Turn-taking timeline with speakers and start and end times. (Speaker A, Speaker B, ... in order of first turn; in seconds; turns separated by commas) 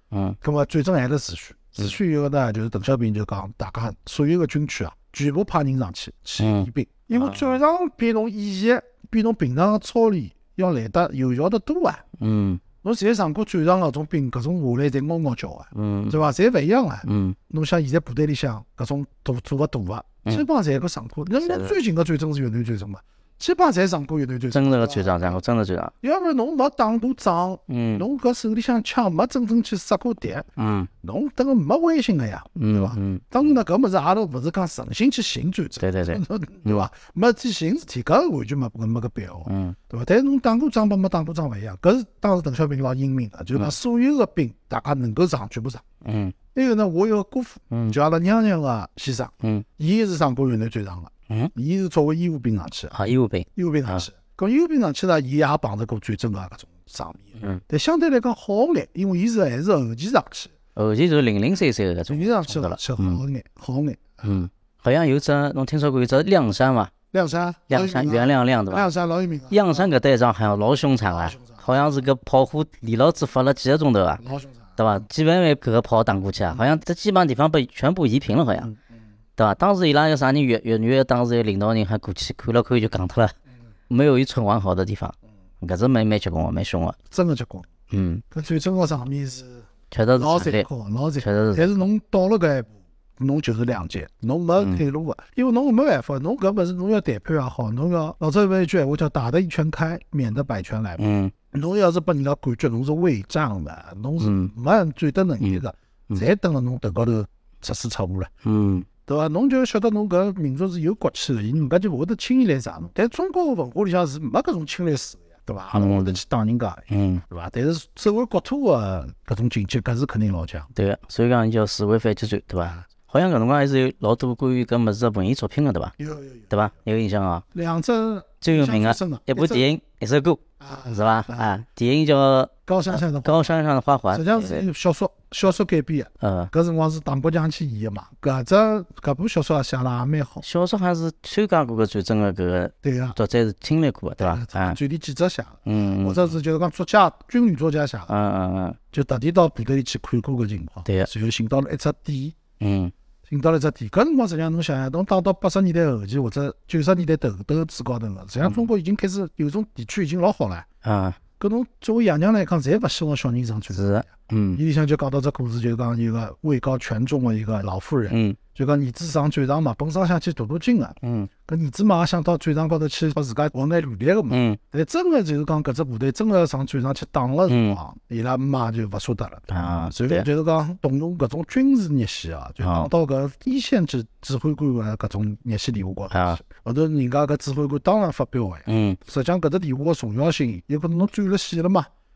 Speaker A: 0.1-0.4, Speaker B: 0.4-12.0, Speaker A: 6.4-7.5, Speaker A: 12.2-12.6, Speaker B: 12.8-25.4, Speaker A: 15.7-16.2, Speaker A: 17.0-17.4, Speaker A: 21.4-21.8, Speaker A: 24.5-25.9, Speaker B: 26.0-30.5, Speaker A: 27.7-28.1, Speaker A: 30.6-30.9, Speaker B: 31.0-45.8, Speaker A: 32.6-33.2, Speaker A: 35.8-36.9, Speaker A: 39.5-39.8, Speaker A: 46.0-46.4, Speaker B: 46.5-53.0, Speaker A: 47.7-48.0, Speaker A: 52.9-54.1, Speaker B: 53.6-60.5, Speaker A: 57.4-57.6, Speaker A: 60.8-63.2, Speaker B: 62.1-64.4, Speaker A: 64.2-66.9, Speaker B: 67.1-69.9, Speaker A: 67.7-68.9, Speaker A: 69.5-74.2, Speaker B: 71.1-71.8, Speaker B: 74.2-75.0, Speaker A: 74.8-78.7, Speaker B: 78.5-78.8, Speaker A: 79.4-83.3, Speaker A: 83.9-87.0, Speaker B: 87.1-87.7, Speaker A: 87.9-88.2, Speaker B: 88.3-108.3, Speaker A: 89.9-90.7, Speaker A: 91.2-91.7, Speaker A: 101.0-101.3, Speaker A: 104.2-104.5, Speaker A: 105.4-106.2, Speaker A: 108.4-108.9, Speaker B: 109.1-120.7, Speaker A: 115.7-116.2, Speaker A: 116.9-117.2, Speaker A: 120.8-125.9, Speaker B: 126.0-126.6, Speaker A: 126.5-127.4, Speaker B: 127.5-129.7, Speaker A: 128.4-134.7, Speaker B: 130.6-131.6, Speaker B: 132.7-133.5, Speaker B: 134.1-140.4, Speaker A: 136.2-136.5, Speaker A: 140.4-144.8, Speaker B: 142.8-143.2, Speaker B: 144.2-148.1, Speaker A: 145.7-146.3, Speaker A: 148.1-148.8, Speaker B: 148.9-152.3, Speaker A: 152.6-152.9, Speaker B: 153.3-160.7, Speaker A: 160.8-161.2, Speaker B: 161.4-191.9, Speaker A: 163.7-164.6, Speaker A: 168.1-168.4, Speaker A: 171.0-171.3, Speaker A: 174.3-174.6, Speaker A: 177.5-177.8, Speaker A: 179.5-180.3, Speaker A: 182.6-182.9, Speaker A: 186.1-186.4, Speaker A: 188.7-189.0